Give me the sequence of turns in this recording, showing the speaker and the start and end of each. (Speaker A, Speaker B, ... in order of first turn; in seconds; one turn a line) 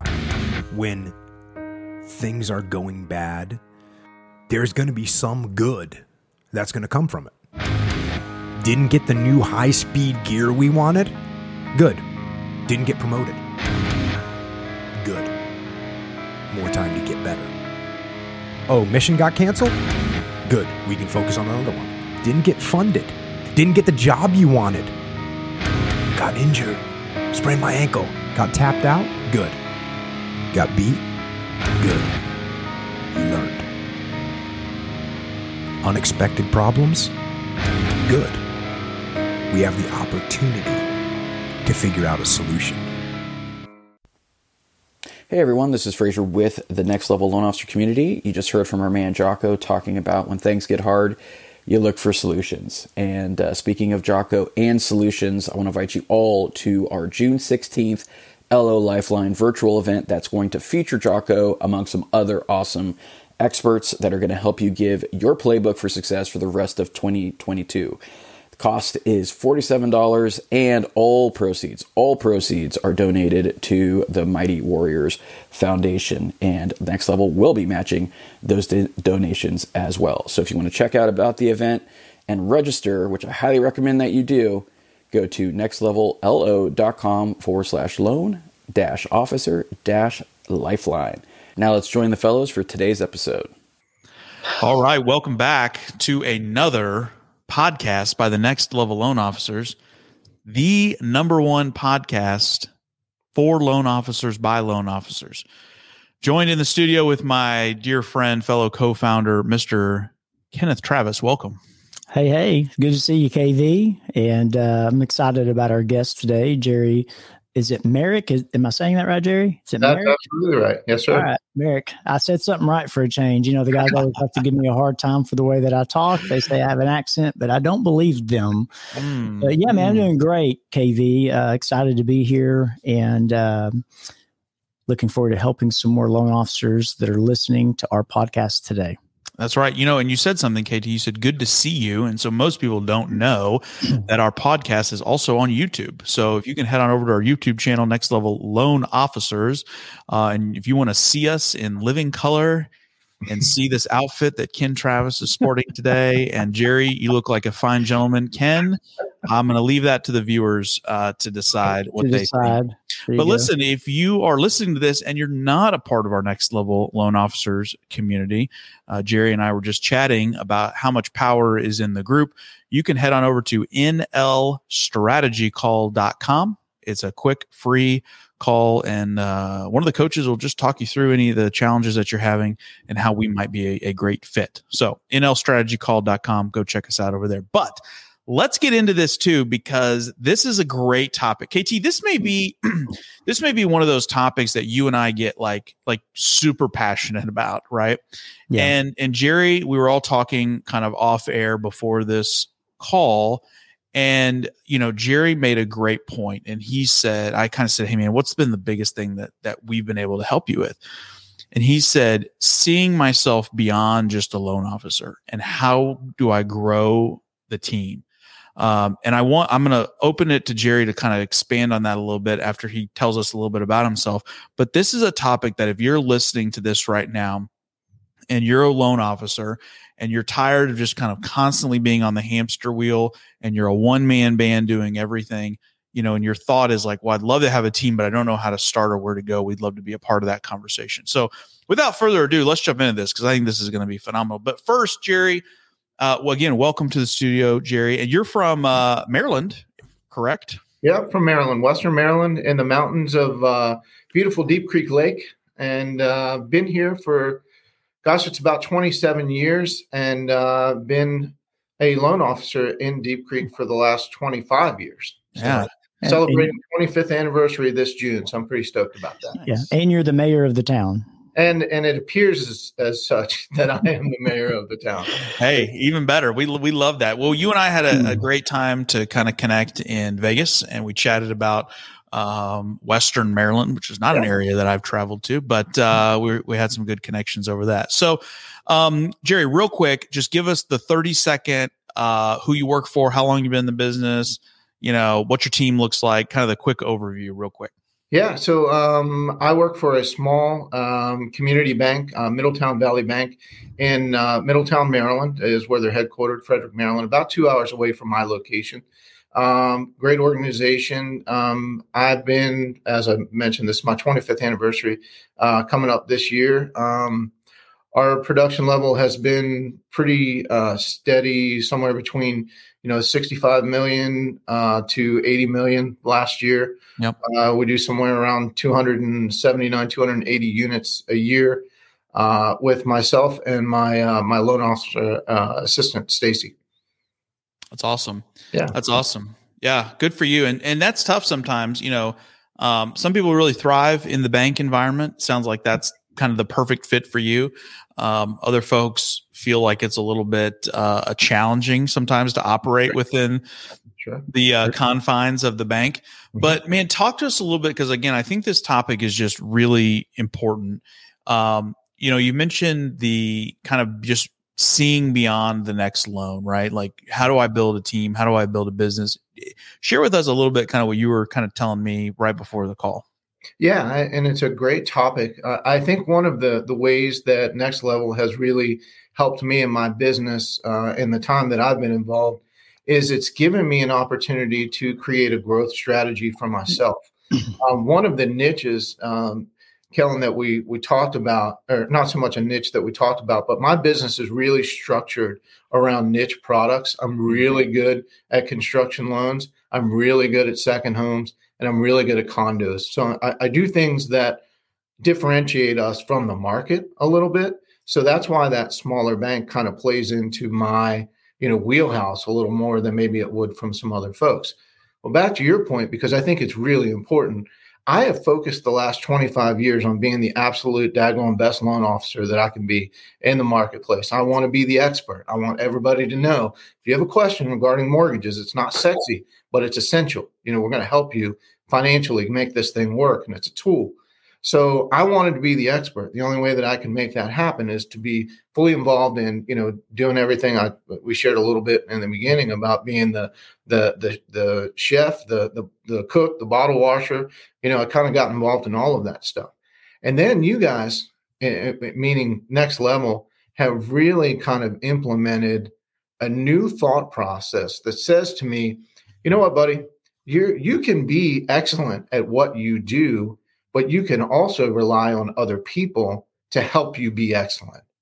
Speaker A: 0.7-1.1
Speaker A: 2.0-3.6
Speaker A: 4.5-7.3
Speaker A: 8.6-11.1
Speaker A: 11.7-12.0
Speaker A: 12.7-13.4
Speaker A: 15.0-15.3
Speaker A: 16.5-17.5
Speaker A: 18.7-19.8
Speaker A: 20.4-24.9
Speaker A: 26.1-29.6
Speaker A: 30.5-31.0
Speaker A: 31.8-32.1
Speaker A: 33.1-33.7
Speaker A: 35.8-37.1
Speaker A: 38.0-38.4
Speaker A: 39.5-40.9
Speaker A: 41.6-42.9
Speaker B: 45.3-68.0
Speaker B: 68.5-93.5
Speaker C: 94.6-99.8
Speaker C: 100.4-102.7
Speaker C: 103.3-105.4
Speaker C: 106.2-111.6
Speaker D: 112.1-120.2
Speaker E: 119.8-121.3
Speaker D: 121.1-128.7
Speaker C: 129.0-130.1
Speaker D: 129.4-133.8
Speaker D: 134.9-139.0
Speaker C: 139.4-152.7
Speaker C: 153.2-162.6
Speaker D: 162.0-163.5
Speaker C: 163.1-198.0
Speaker C: 198.5-210.8
Speaker C: 211.5-218.0
Speaker C: 218.6-227.5
Speaker C: 228.3-245.4
Speaker C: 246.0-250.6
Speaker E: 250.8-257.4
Speaker E: 258.0-269.6
Speaker C: 265.4-265.7
Speaker D: 266.0-266.5
Speaker D: 269.4-271.1
Speaker E: 271.3-275.3
Speaker C: 275.4-297.7
Speaker E: 298.1-317.3
Speaker E: 317.9-336.5
Speaker C: 337.7-353.4
Speaker E: 354.0-354.3
Speaker C: 354.3-373.0
Speaker E: 373.6-404.4
Speaker E: 405.0-467.8